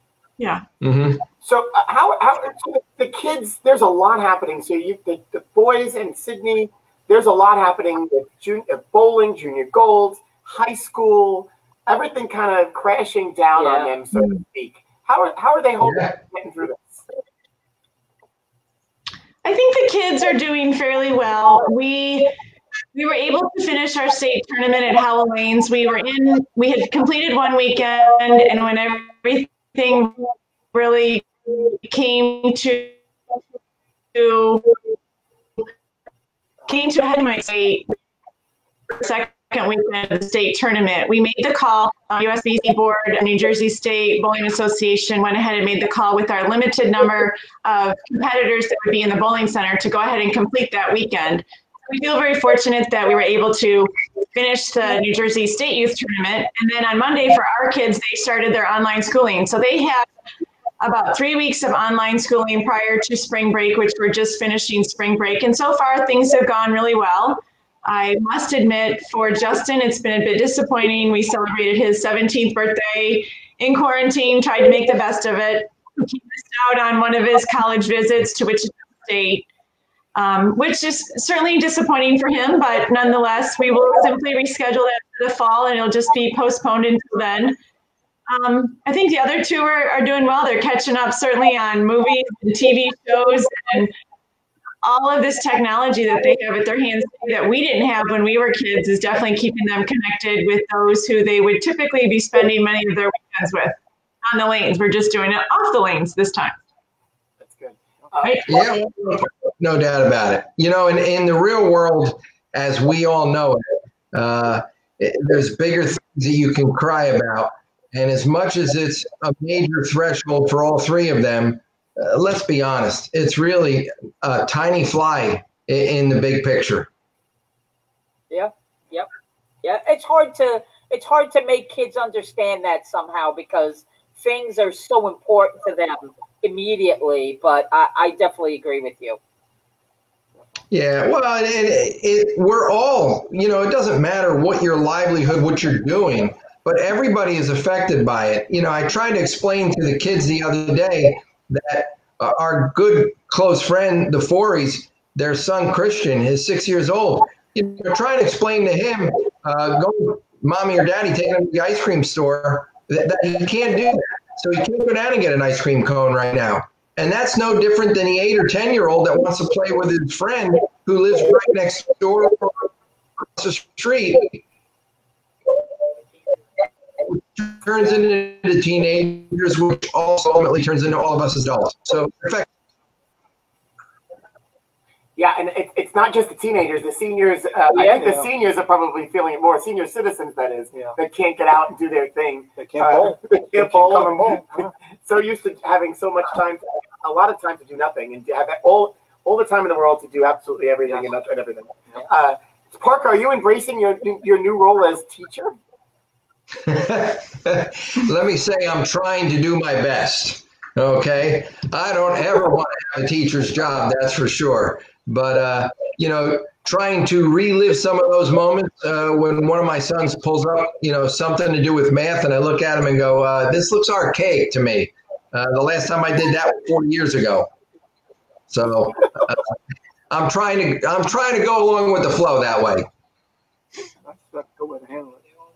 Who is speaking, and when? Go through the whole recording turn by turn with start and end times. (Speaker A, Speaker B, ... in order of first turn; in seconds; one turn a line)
Speaker A: 0.4-0.6
Speaker B: 0.8-1.2
Speaker C: 1.4-17.0
Speaker D: 13.6-13.9
Speaker B: 15.8-16.1
Speaker A: 19.4-22.3
Speaker A: 22.9-30.1
Speaker A: 30.7-33.0
Speaker A: 34.1-34.8
Speaker A: 36.7-37.9
Speaker A: 38.9-60.1
Speaker A: 60.8-79.4
Speaker A: 80.1-87.6
Speaker A: 88.3-93.9
Speaker A: 94.8-106.5
Speaker C: 107.4-108.7
Speaker B: 108.5-126.9
Speaker D: 128.3-129.1
Speaker D: 129.6-139.2
Speaker B: 140.7-174.4
Speaker B: 177.0-182.5
Speaker C: 185.2-194.4
Speaker D: 187.7-188.1
Speaker E: 187.9-188.2
Speaker E: 192.6-194.7
Speaker C: 195.0-205.6
Speaker E: 200.8-201.1
Speaker B: 206.6-227.5
Speaker B: 228.5-229.5
Speaker B: 230.1-232.9
Speaker E: 234.0-235.2